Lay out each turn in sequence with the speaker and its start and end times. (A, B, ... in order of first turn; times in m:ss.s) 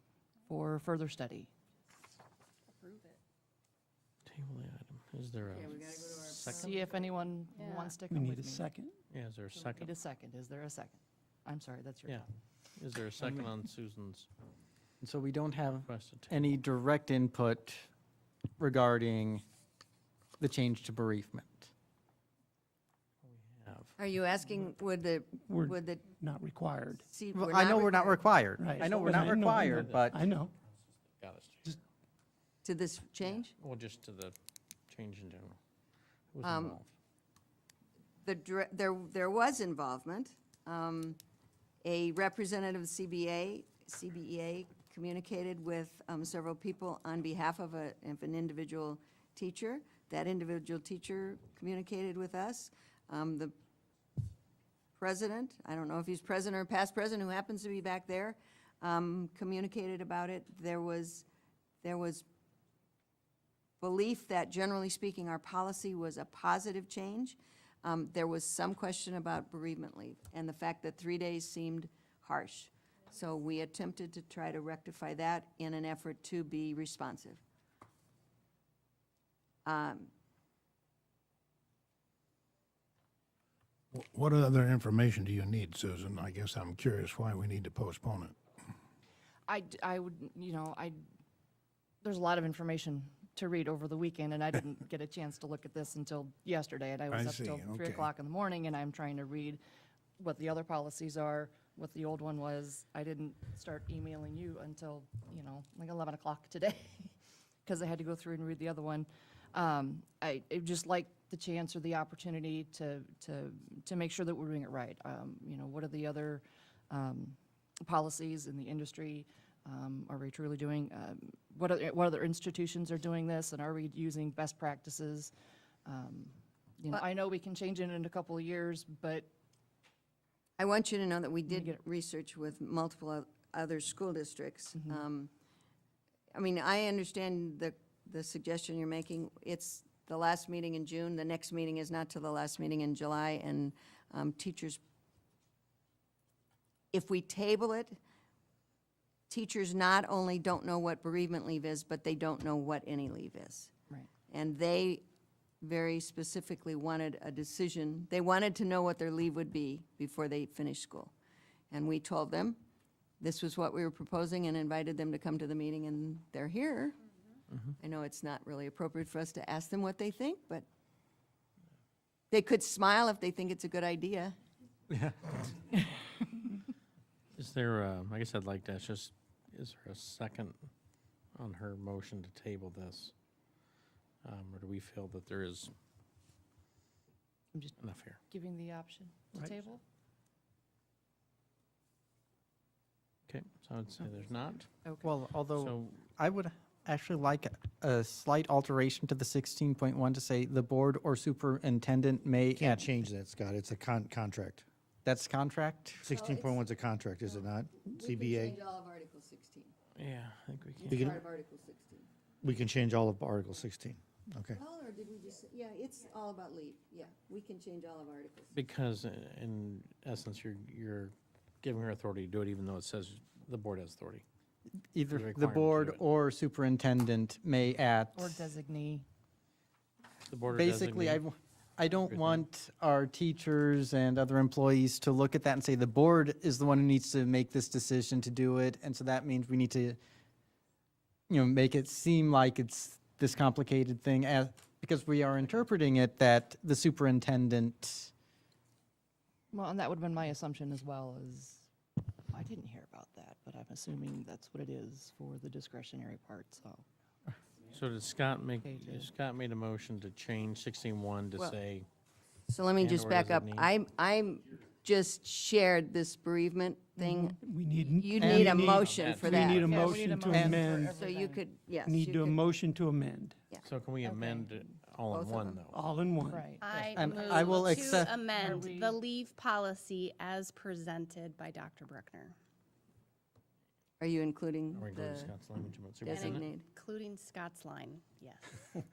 0:00.5-0:01.5 A
0:02.8-0:03.1 B
0:04.2-0:06.7 C
0:05.4-0:07.1 D
0:06.5-0:08.7 A
0:07.6-0:07.9 B
0:08.1-0:08.9 E
0:09.1-0:09.9 C
0:09.6-0:12.2 A
0:12.8-0:14.3 C
0:15.0-0:17.9 F
0:15.8-0:16.5 C
0:18.6-0:19.4 F
0:20.4-0:21.7 F
0:23.2-0:23.9 C
0:24.0-0:26.0 D
0:25.5-0:27.0 E
0:27.0-0:28.2 D
0:27.3-0:30.2 F
0:28.6-0:30.5 E
0:28.8-0:30.2 C
0:31.2-0:31.8 C
0:32.6-0:33.5 D
0:33.2-0:34.3 C
0:34.9-0:35.6 C
0:36.3-0:36.9 C
0:36.4-0:36.8 D
0:38.2-0:41.2 D
0:41.8-0:53.5 D
0:55.0-1:01.2 D
1:01.8-1:02.2 D
1:03.8-1:17.4 D
1:19.6-1:20.1 D
1:23.9-1:28.4 G
1:29.5-1:31.0 A
1:32.0-1:39.6 A
1:37.1-1:38.1 G
1:40.2-1:47.1 A
1:47.6-2:05.3 A
2:05.8-2:09.3 A
2:10.6-2:15.3 D
2:11.5-2:11.8 A
2:16.3-2:24.8 D
2:26.9-2:28.0 D
2:29.3-2:33.7 D
2:34.3-2:35.0 D
2:35.6-2:41.1 D
2:41.7-2:42.6 D
2:43.2-2:47.0 D
2:47.8-2:50.6 D
2:52.3-2:54.3 D
2:54.9-2:55.3 F
2:57.4-3:00.7 C
3:01.3-3:03.1 C
3:04.2-3:05.7 C
3:07.8-3:08.2 C
3:08.3-3:09.8 A
3:13.3-3:14.7 C
3:14.8-3:15.1 A
3:15.0-3:22.9 F
3:15.5-3:15.9 C
3:22.5-3:24.6 H
3:25.0-3:26.0 F
3:26.0-3:28.6 H
3:26.0-3:26.6 D
3:27.9-3:29.7 D
3:30.0-3:31.1 C
3:30.8-3:32.1 D
3:30.9-3:31.2 H
3:32.4-3:34.6 H
3:34.5-3:38.5 D
3:38.5-3:44.2 C
3:44.9-3:48.4 F
3:45.1-3:46.0 C
3:48.1-3:49.0 A
3:50.3-3:51.2 C
3:50.5-4:00.0 F
3:52.1-3:52.4 C
4:01.3-4:08.1 F
4:09.5-4:11.7 A
4:12.3-4:16.8 A
4:17.7-4:21.9 C
4:18.6-4:19.1 A
4:22.5-4:27.4 D
4:22.8-4:23.7 C
4:27.0-4:27.4 A
4:27.4-4:31.0 E
4:27.9-4:30.0 D
4:28.2-4:28.8 F
4:28.6-4:29.9 C
4:29.4-4:31.4 A
4:30.2-4:30.6 F
4:30.9-4:32.4 D
4:31.8-4:33.4 E
4:33.6-4:35.8 C
4:34.0-4:34.6 A
4:35.1-4:35.7 D
4:35.7-4:36.5 E
4:36.2-4:39.0 A
4:36.6-4:42.4 B
4:36.9-4:38.1 F
4:44.0-4:45.3 D
4:44.7-4:46.5 C
4:46.0-4:46.6 D
4:46.1-4:48.6 B